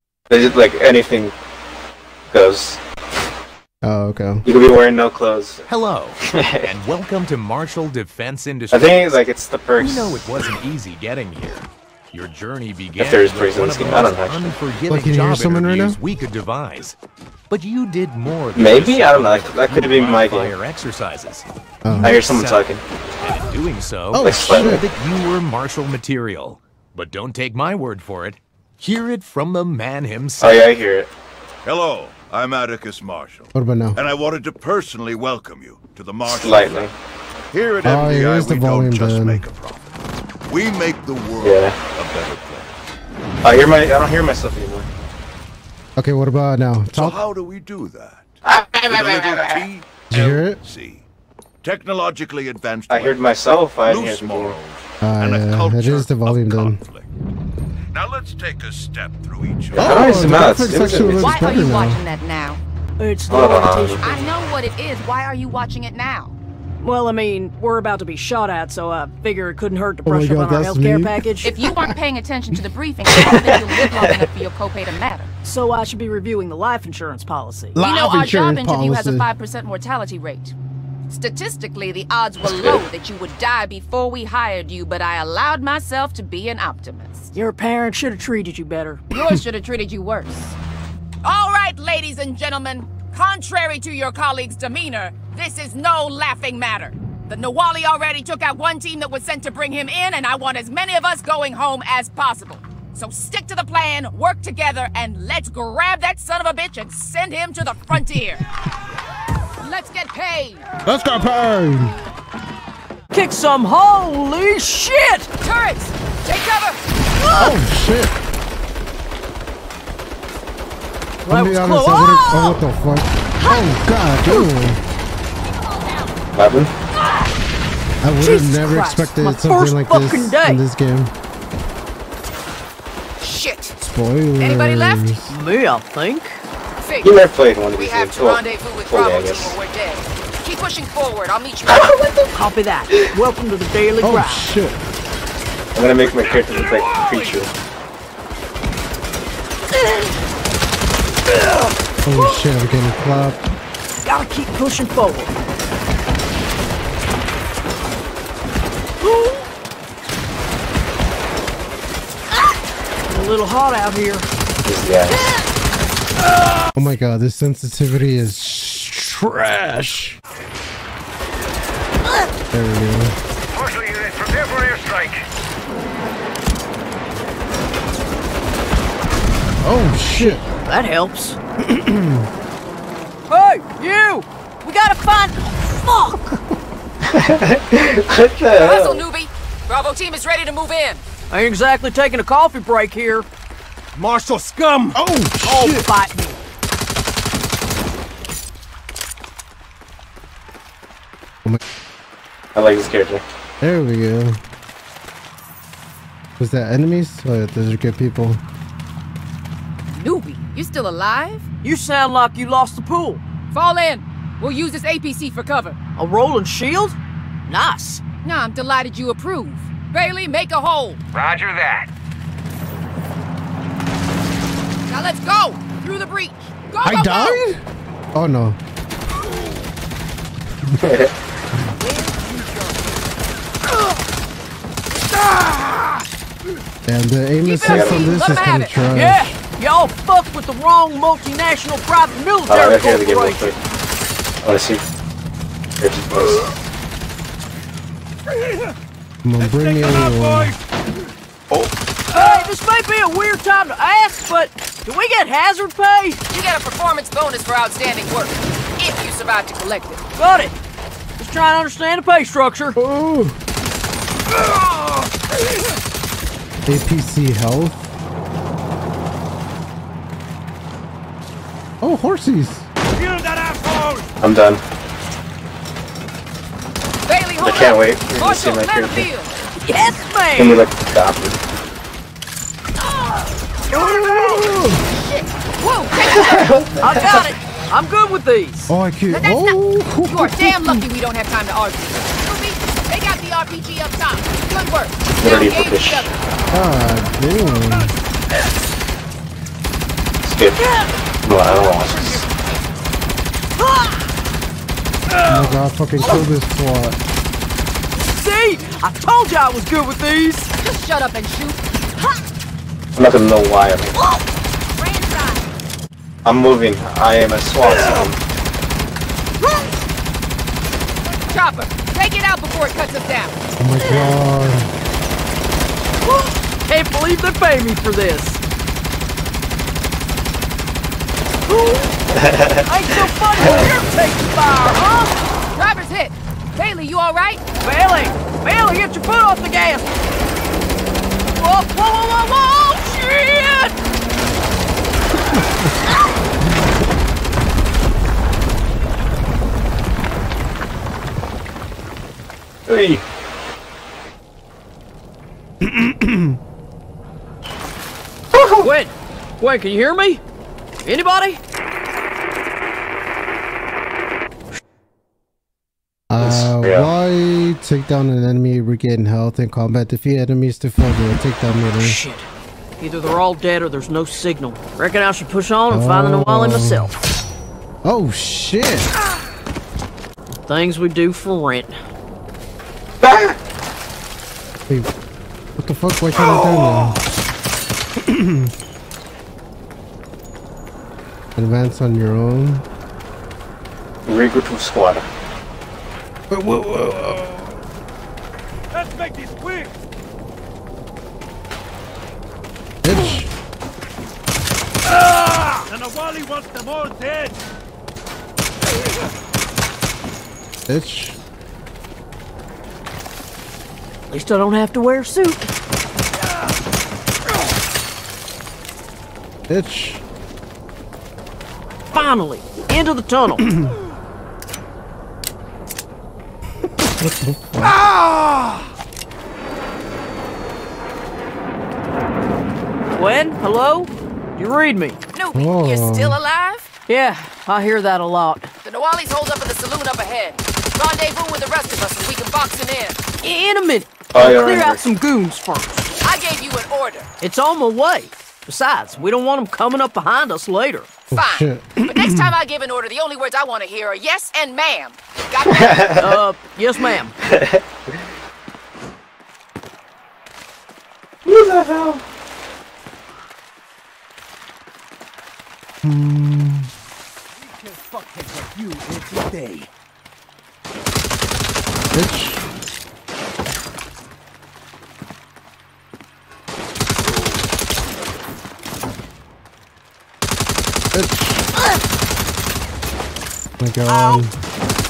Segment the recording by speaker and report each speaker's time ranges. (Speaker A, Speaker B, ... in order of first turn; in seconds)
Speaker A: 0.3-1.3, 2.3-2.8, 4.4-5.7, 6.3-6.7, 8.7-10.2, 13.0-14.5, 18.5-20.5, 21.9-22.8, 24.1-24.8, 30.4-31.1, 36.2-36.9, 41.4-41.8, 43.4-44.9, 48.5-49.6, 52.9-54.6, 59.7-61.6, 63.3-64.1, 73.2-74.3, 126.3-126.7, 137.0-139.6, 141.7-142.3, 145.7-147.5, 164.6-165.3, 187.0-189.1, 202.5-203.2, 230.8-231.1, 237.6-238.2, 242.5-243.6, 244.4-244.8, 245.8-246.5, 274.2-274.6, 277.4-279.1, 280.4-281.4, 286.0-287.3, 295.2-296.1, 300.2-300.7, 301.2-302.2, 312.9-314.0, 316.2-318.2, 332.1-332.6, 352.6-353.0, 358.3-358.7, 366.2-366.9, 383.0-383.4, 394.1-395.1, 444.1-444.8, 455.5-456.1, 457.2-457.6, 461.2-462.0
Speaker B: 3.8-4.4, 14.9-16.0, 21.8-22.2, 24.1-24.9, 33.5-34.0, 37.8-39.4, 46.0-47.2, 50.1-50.6, 55.0-56.8, 59.7-62.0, 70.0-71.9, 77.8-79.3, 110.8-111.9, 117.3-118.2, 121.3-124.8, 128.0-131.1, 133.8-135.3, 144.0-144.8, 152.0-153.4, 166.7-170.2, 172.5-173.1, 179.6-180.4, 181.6-182.3, 194.9-195.9, 203.6-204.4, 206.4-208.4, 226.8-227.6, 228.1-228.6, 236.8-239.4, 249.2-250.5, 262.8-263.4, 266.6-267.9, 271.8-272.7, 283.7-284.8, 288.7-290.9, 296.5-297.9, 305.2-307.0, 323.6-324.7, 355.6-356.4, 366.1-372.0, 375.7-376.9, 377.8-378.9, 385.6-387.0, 388.0-388.5, 391.4-392.6, 396.3-397.6, 402.8-403.3, 410.7-411.2, 419.5-420.0, 423.4-423.7, 426.6-427.8, 435.3-436.2, 451.1-452.4, 465.8-466.7, 471.9-472.4, 480.9-481.4, 483.6-484.3
Speaker C: 5.7-9.0, 9.8-16.9, 17.5-22.6, 23.2-30.7
Speaker D: 31.6-36.9, 37.5-39.8, 40.5-42.7, 46.9-51.0, 51.6-57.1, 57.9-61.0
Speaker E: 61.0-62.6, 64.0-66.3, 71.4-75.3, 77.8-80.5, 81.1-87.3, 89.1-90.5, 91.2-108.4, 109.6-110.6, 115.4-116.8, 133.2-133.8, 134.4-135.2, 136.8-137.2, 137.7-142.0, 188.6-191.0, 209.9-211.4, 213.5-215.8, 218.2-221.0, 224.9-227.4, 237.4-238.8, 256.3-260.0, 277.1-279.3, 283.7-286.6, 289.1-296.1, 301.9-302.6, 310.6-311.6, 314.8-315.5, 321.3-323.4, 335.5-337.4, 435.1-436.7, 438.6-443.0, 446.0-447.1, 451.1-456.0
Speaker F: 63.0-64.3, 66.8-71.5, 75.4-77.8, 87.3-89.0, 113.1-115.3, 117.2-117.5, 121.2-122.6, 123.4-123.7, 128.2-130.6, 135.3-136.4, 142.3-144.5, 154.0-155.3, 159.1-159.4, 163.1-164.3, 180.1-181.4, 183.3-186.2, 191.3-193.3, 195.4-196.4, 211.6-213.2, 216.0-218.0, 231.8-232.8, 238.9-243.6, 252.1-256.2, 260.1-260.5, 261.2-262.8, 279.6-280.6, 286.8-288.7, 300.6-300.8, 303.6-304.0, 307.9-310.5, 326.1-328.4, 331.5-331.9, 332.6-335.2, 337.6-339.9, 341.4-343.7, 358.6-360.2, 360.8-361.4, 371.8-372.3, 372.8-376.9, 380.3-381.7, 414.1-415.5, 421.9-423.5, 432.9-435.0, 436.9-438.5, 443.2-445.9, 447.2-450.9, 456.0-457.1
Speaker G: 146.0-147.4, 173.5-175.2, 193.9-195.0, 221.1-221.9, 248.3-248.7, 249.4-250.6, 264.3-265.1, 272.9-274.1, 398.7-399.7, 404.9-407.4, 467.4-468.8